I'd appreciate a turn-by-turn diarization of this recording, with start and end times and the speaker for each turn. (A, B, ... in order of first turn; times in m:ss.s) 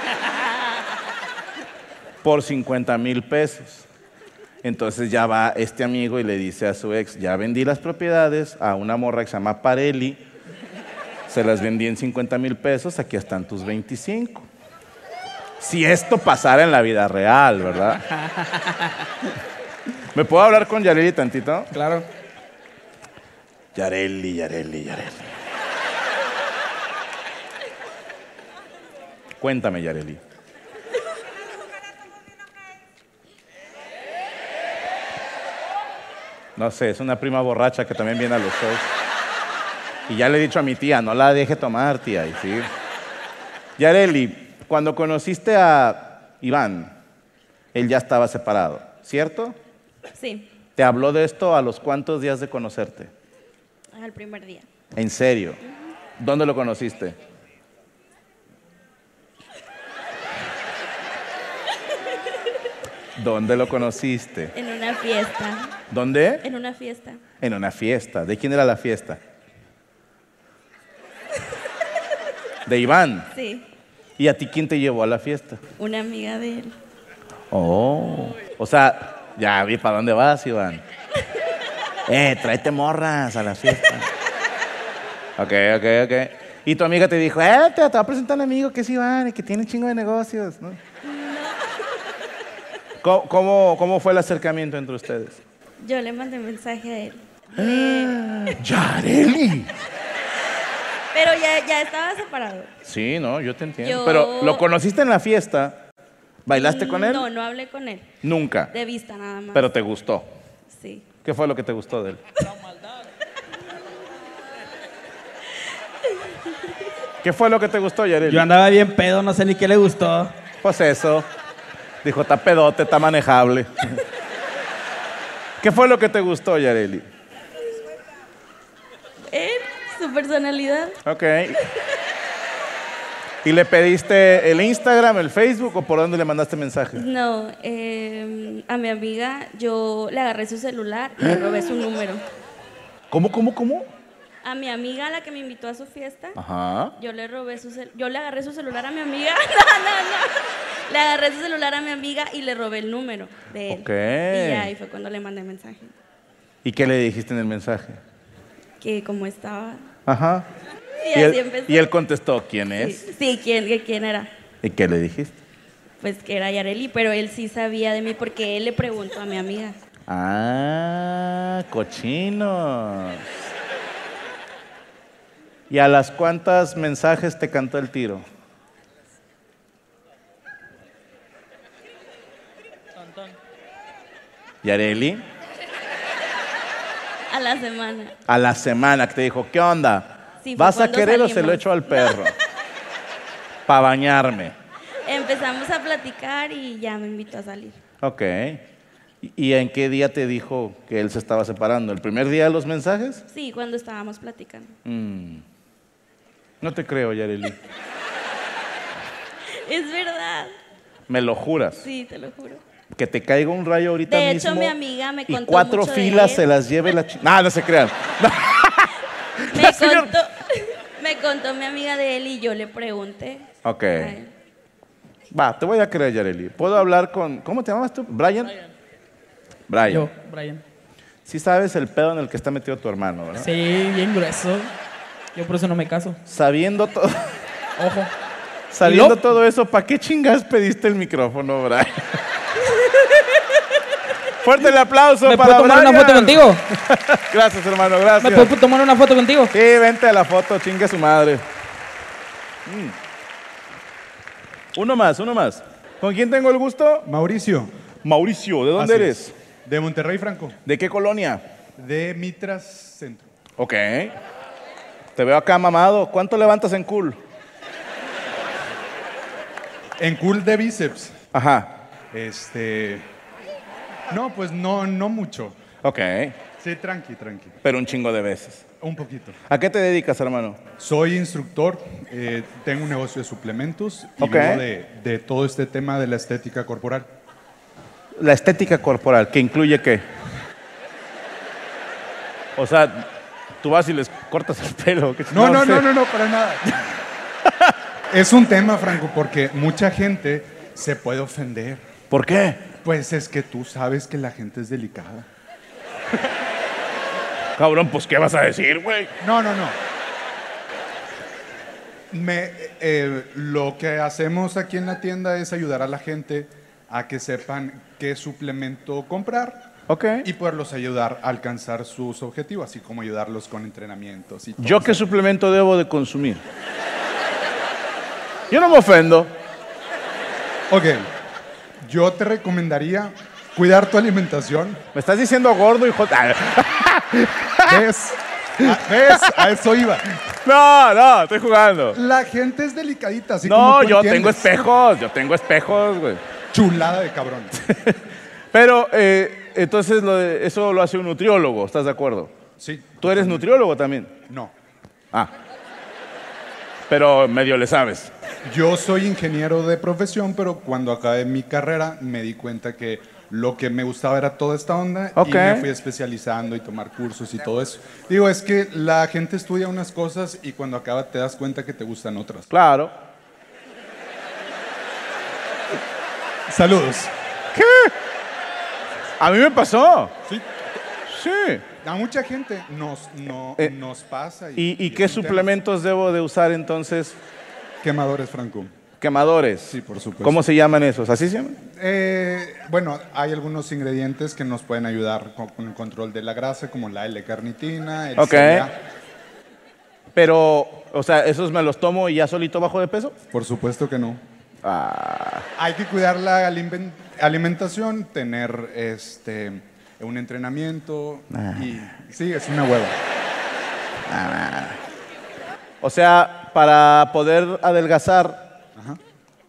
0:02.2-0:03.9 A
0:04.6-0:10.2 A
0:11.3-0:14.5 A
0:15.6-0:18.0 A
0:17.8-0:19.3 B
0:20.1-0:21.7 A
0:21.7-0:22.1 B
0:23.7-0:25.3 A
0:29.4-0:30.2 A
0:36.6-0:38.9 A
0:40.1-0:42.7 A
0:43.8-0:46.9 A
0:47.7-0:49.6 A
0:50.2-0:50.5 C
0:50.8-0:53.1 A
0:53.9-0:54.6 C
0:55.0-0:55.6 A
0:56.2-0:57.2 A
1:03.2-1:04.5 A
1:04.5-1:05.7 C
1:05.9-1:06.4 A
1:06.4-1:07.2 C
1:07.4-1:09.2 A
1:12.6-1:13.3 A
1:13.3-1:13.6 C
1:14.2-1:15.6 A
1:15.8-1:16.7 C
1:17.5-1:20.8 A
1:22.1-1:24.1 A
1:25.4-1:30.8 A
1:31.0-1:31.6 C
1:33.0-1:35.4 A
1:35.8-1:38.2 C
1:37.6-1:39.7 A
1:41.1-1:42.7 C
1:42.8-1:45.8 A
1:43.8-1:44.6 C
1:46.4-1:47.2 A
1:46.5-1:48.1 C
1:48.2-1:48.7 A
1:48.7-1:49.7 C
1:49.5-1:50.3 A
1:50.7-1:51.0 C
1:51.2-1:52.2 A
1:57.2-1:58.5 A
1:58.2-2:00.3 B
2:00.6-2:01.3 A
2:02.0-2:04.0 A
2:05.6-2:07.0 A
2:09.3-2:11.0 C
2:11.0-2:11.6 A
2:13.4-2:17.0 A
2:16.9-2:22.2 C
2:23.1-2:23.9 A
2:24.4-2:26.4 C
2:26.4-2:26.9 A
2:27.0-2:30.4 C
2:30.9-2:35.9 C
2:33.7-2:34.7 A
2:36.6-2:38.0 A
2:38.8-2:39.9 C
2:40.0-2:40.5 A
2:41.0-2:41.9 C
2:41.1-2:43.0 A
2:42.8-2:44.3 C
2:44.6-2:45.3 A
2:46.0-2:49.7 C
2:50.1-2:53.3 A
2:55.7-2:58.2 A
3:04.6-3:05.2 A
3:07.3-3:08.1 C
3:08.3-3:12.3 A
3:10.4-3:12.3 C
3:13.7-3:14.5 A
3:15.0-3:17.8 C
3:18.0-3:18.6 A
3:19.2-3:23.2 A
3:23.3-3:24.7 C
3:24.8-3:25.4 A
3:26.6-3:27.6 A
3:29.4-3:30.5 C
3:31.1-3:31.8 A
3:31.8-3:32.6 C
3:33.0-3:34.7 A
3:34.1-3:36.4 C
3:35.3-3:40.1 A
3:39.5-3:44.3 C
3:43.6-3:44.2 A
3:45.3-3:48.5 A
3:49.7-3:50.1 A
3:49.9-3:50.6 D
3:51.2-3:53.5 A
3:53.4-3:54.7 D
3:55.3-3:56.2 D
3:56.2-3:57.3 A
3:57.8-3:58.1 D
3:58.7-4:02.2 A
3:58.8-3:59.2 D
4:02.8-4:03.6 D
4:04.4-4:08.5 A
4:05.2-4:06.6 D
4:08.2-4:09.5 D
4:09.5-4:11.4 A
4:12.6-4:13.0 A
4:14.7-4:17.0 A
4:17.0-4:17.7 E
4:18.0-4:19.3 A
4:18.8-4:20.6 E
4:20.6-4:21.4 A
4:21.8-4:23.3 E
4:23.6-4:24.1 A
4:25.2-4:27.2 A
4:30.0-4:31.1 E
4:31.3-4:31.8 A
4:32.1-4:33.1 E
4:34.1-4:35.6 E
4:35.8-4:36.4 A
4:36.6-4:37.6 E
4:37.6-4:38.6 A
4:38.8-4:39.4 E
4:39.5-4:40.6 A
4:40.8-4:47.1 E
4:44.2-4:44.6 A
4:48.2-4:50.0 A
4:52.6-4:53.1 A
4:53.6-4:55.9 A
4:55.3-4:56.6 E
4:57.4-4:57.7 A
4:58.1-5:01.8 E
5:02.1-5:02.7 A
5:02.8-5:05.2 E
5:07.6-5:09.1 A
5:09.2-5:09.8 E
5:12.1-5:19.7 E
5:19.9-5:20.3 A
5:20.2-5:25.0 E
5:24.6-5:26.4 A
5:28.5-5:29.3 A
5:30.7-5:31.1 E
5:31.8-5:34.8 E
5:34.9-5:37.8 A
5:37.7-5:40.1 E
5:38.6-5:39.4 A
5:40.4-5:42.0 A
5:41.9-5:44.5 E
5:43.4-5:46.2 A
5:46.5-5:47.5 E
5:47.6-5:48.0 A
5:48.5-5:52.3 A
5:52.6-5:53.5 E
5:53.0-5:54.2 A
5:54.3-5:54.5 E
5:56.9-5:58.1 A
5:58.4-6:12.5 E
6:05.2-6:05.7 A
6:12.5-6:12.9 A
6:16.5-6:17.1 E
6:17.5-6:17.9 A
6:19.2-6:20.2 A
6:21.0-6:21.6 A
6:21.8-6:25.5 E
6:24.6-6:27.2 A
6:27.8-6:28.7 E
6:29.0-6:31.6 A
6:29.7-6:30.4 E
6:31.6-6:38.7 E
6:38.2-6:38.7 A
6:40.1-6:43.2 A
6:43.3-6:44.2 E
6:44.6-6:45.4 A
6:45.6-6:53.0 E
6:51.3-6:51.9 A
6:54.1-6:54.8 A
6:55.8-6:58.5 A